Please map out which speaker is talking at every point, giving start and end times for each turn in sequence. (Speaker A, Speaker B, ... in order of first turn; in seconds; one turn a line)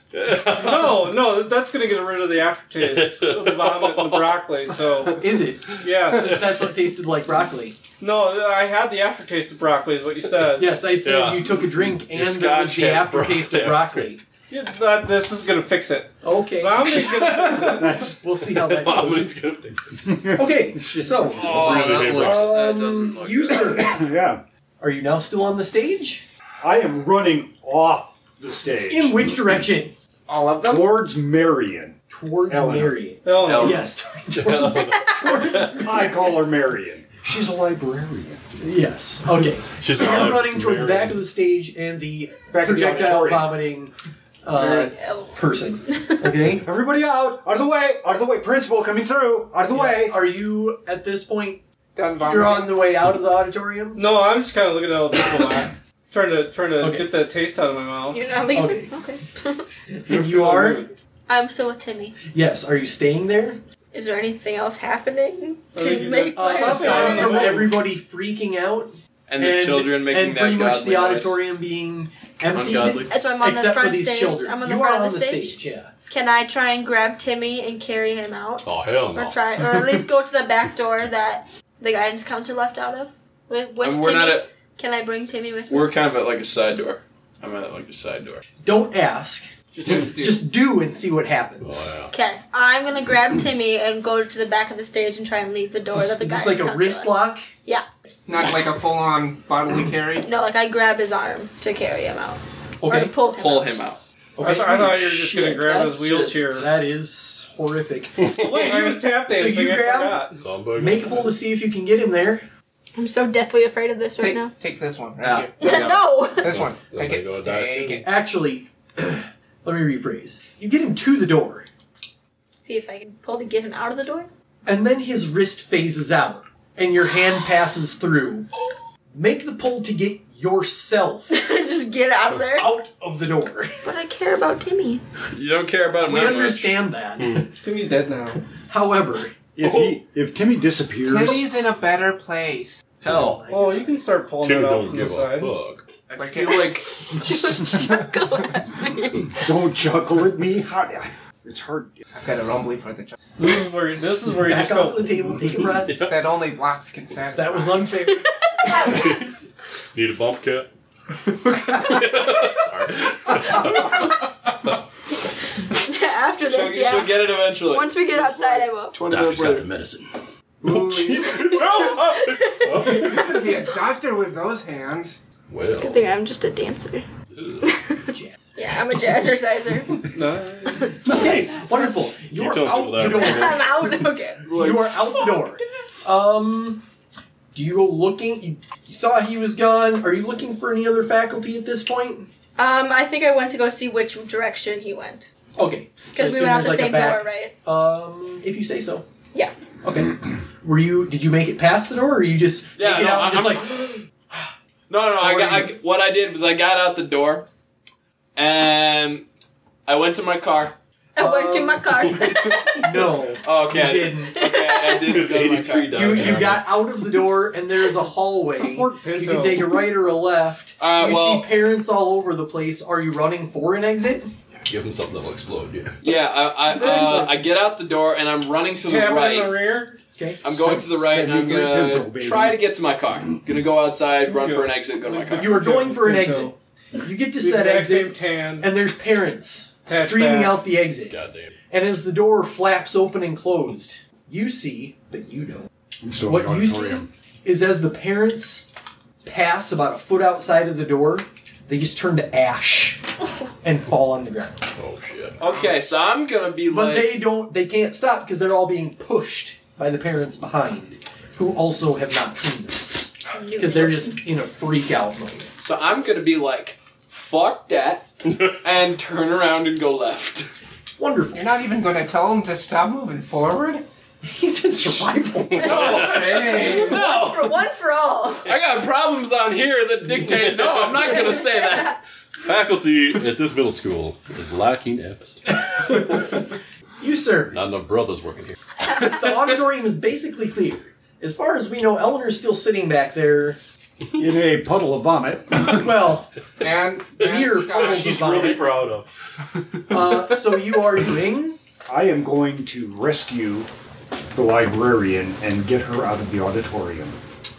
Speaker A: 0.1-1.1
Speaker B: 0.5-5.2
Speaker A: 2.8-4.4
Speaker C: 5.1-7.8
Speaker B: 5.8-6.4
Speaker B: 8.0-10.8
Speaker C: 10.5-14.2
Speaker A: 11.0-14.1
Speaker B: 14.5-18.0
Speaker C: 16.2-19.4
Speaker D: 17.6-18.2
Speaker A: 18.4-19.8
Speaker D: 20.1-21.2
Speaker C: 20.3-24.1
Speaker A: 21.3-22.6
Speaker E: 21.4-23.8
Speaker D: 23.8-24.4
Speaker C: 24.8-26.3
Speaker D: 26.6-29.7
Speaker C: 28.9-29.9
Speaker F: 30.3-31.1
Speaker D: 30.6-32.0
Speaker C: 32.1-36.3
Speaker D: 32.5-33.0
Speaker B: 33.2-33.9
Speaker E: 33.5-33.9
Speaker A: 34.4-35.7
Speaker D: 35.7-38.4
Speaker C: 38.6-43.9
Speaker A: 39.8-41.2
Speaker D: 42.5-43.6
Speaker C: 44.4-46.6
Speaker D: 44.6-44.9
Speaker G: 44.9-45.3
Speaker D: 46.6-50.2
Speaker C: 49.7-51.6
Speaker F: 52.0-52.9
Speaker C: 52.2-54.1
Speaker B: 54.0-58.2
Speaker C: 56.8-57.1
Speaker G: 58.1-59.6
Speaker C: 58.5-58.9
Speaker C: 59.9-60.8
Speaker B: 60.4-60.8
Speaker G: 61.3-62.2
Speaker C: 62.3-63.6
Speaker G: 63.9-67.5
Speaker B: 65.8-67.7
Speaker C: 66.3-75.9
Speaker E: 69.3-71.4
Speaker E: 72.5-73.1
Speaker G: 73.1-75.6
Speaker G: 76.1-85.9
Speaker A: 78.6-79.4
Speaker E: 83.8-84.5
Speaker E: 85.7-88.4
Speaker C: 88.6-91.9
Speaker F: 89.8-90.4
Speaker A: 91.6-92.1
Speaker G: 92.1-97.2
Speaker C: 95.9-97.5
Speaker F: 98.3-100.3
Speaker G: 100.2-103.8
Speaker C: 102.8-103.1
Speaker E: 103.3-104.0
Speaker C: 104.4-112.5
Speaker B: 104.4-106.7
Speaker B: 108.3-110.4
Speaker A: 110.4-111.3
Speaker G: 113.0-114.5
Speaker F: 114.2-118.1
Speaker E: 115.2-116.1
Speaker G: 115.6-116.6
Speaker A: 116.4-118.0
Speaker C: 118.0-121.7
Speaker G: 122.6-124.3
Speaker C: 124.7-128.5
Speaker C: 129.1-131.4
Speaker G: 131.3-132.7
Speaker C: 132.5-133.8
Speaker G: 133.8-135.0
Speaker E: 135.3-136.8
Speaker C: 136.0-137.5
Speaker A: 137.2-137.4
Speaker B: 137.6-138.4
Speaker C: 138.7-139.3
Speaker D: 139.6-141.5
Speaker A: 139.6-140.0
Speaker F: 141.0-142.8
Speaker C: 143.0-144.0
Speaker E: 143.0-143.4
Speaker B: 143.5-145.5
Speaker A: 144.4-145.9
Speaker E: 146.1-147.4
Speaker F: 146.2-146.7
Speaker G: 146.9-149.5
Speaker D: 149.4-152.0
Speaker F: 152.2-153.3
Speaker B: 153.4-155.1
Speaker C: 154.3-156.1
Speaker A: 155.7-156.3
Speaker F: 156.0-157.9
Speaker C: 157.3-159.0
Speaker G: 158.1-159.0
Speaker A: 158.8-159.3
Speaker A: 159.9-160.7
Speaker A: 161.7-164.1
Speaker G: 165.7-169.0
Speaker E: 166.4-169.7
Speaker A: 169.0-170.1
Speaker F: 170.6-171.9
Speaker A: 170.7-173.4
Speaker G: 171.6-173.3
Speaker F: 172.9-175.2
Speaker A: 175.5-176.0
Speaker G: 175.8-177.1
Speaker A: 177.3-177.7
Speaker G: 177.6-178.0
Speaker C: 178.1-178.5
Speaker G: 178.6-180.1
Speaker B: 180.1-180.9
Speaker G: 180.8-182.0
Speaker C: 181.1-183.9
Speaker A: 182.3-183.9
Speaker G: 183.0-184.5
Speaker E: 184.5-185.1
Speaker C: 184.5-186.8
Speaker C: 187.5-192.3
Speaker G: 192.6-195.3
Speaker C: 195.6-199.1
Speaker G: 196.1-197.5
Speaker C: 199.8-204.5
Speaker E: 202.8-204.0
Speaker E: 204.9-207.5
Speaker C: 205.2-205.8
Speaker E: 208.4-209.3
Speaker E: 209.9-210.8
Speaker G: 211.2-212.9
Speaker C: 211.2-214.5
Speaker E: 213.4-216.6
Speaker G: 214.3-215.1
Speaker A: 215.1-216.8
Speaker C: 215.9-224.3
Speaker B: 218.6-219.8
Speaker E: 220.8-221.6
Speaker A: 224.7-226.0
Speaker E: 226.0-229.6
Speaker C: 226.7-227.3
Speaker B: 228.8-230.0
Speaker C: 230.2-230.4
Speaker E: 230.4-235.7
Speaker D: 230.6-232.6
Speaker B: 234.2-236.5
Speaker C: 235.3-241.2
Speaker B: 237.4-238.7
Speaker B: 239.9-240.7
Speaker A: 241.1-241.5
Speaker C: 241.7-245.7
Speaker D: 246.0-247.1
Speaker C: 246.2-248.7
Speaker C: 249.2-253.0
Speaker C: 253.6-254.7
Speaker A: 254.8-255.4
Speaker E: 255.4-257.3
Speaker C: 256.7-265.5
Speaker G: 263.3-264.2
Speaker E: 265.6-268.1
Speaker A: 268.3-268.6
Speaker E: 268.6-270.5
Speaker C: 271.0-271.5
Speaker F: 271.3-273.8
Speaker C: 274.2-276.9
Speaker A: 275.5-276.2
Speaker F: 275.6-277.0
Speaker E: 276.4-277.6
Speaker G: 276.8-278.5
Speaker E: 278.4-282.0
Speaker A: 280.1-281.4
Speaker G: 281.3-282.0
Speaker A: 282.4-285.6
Speaker C: 285.5-286.4
Speaker C: 287.0-287.6
Speaker A: 287.5-288.6
Speaker C: 288.9-293.6
Speaker D: 294.2-295.9
Speaker C: 295.6-296.4
Speaker F: 296.6-298.7
Speaker C: 297.2-298.7
Speaker A: 297.2-299.1
Speaker C: 299.9-301.6
Speaker D: 301.9-303.7
Speaker D: 304.3-307.2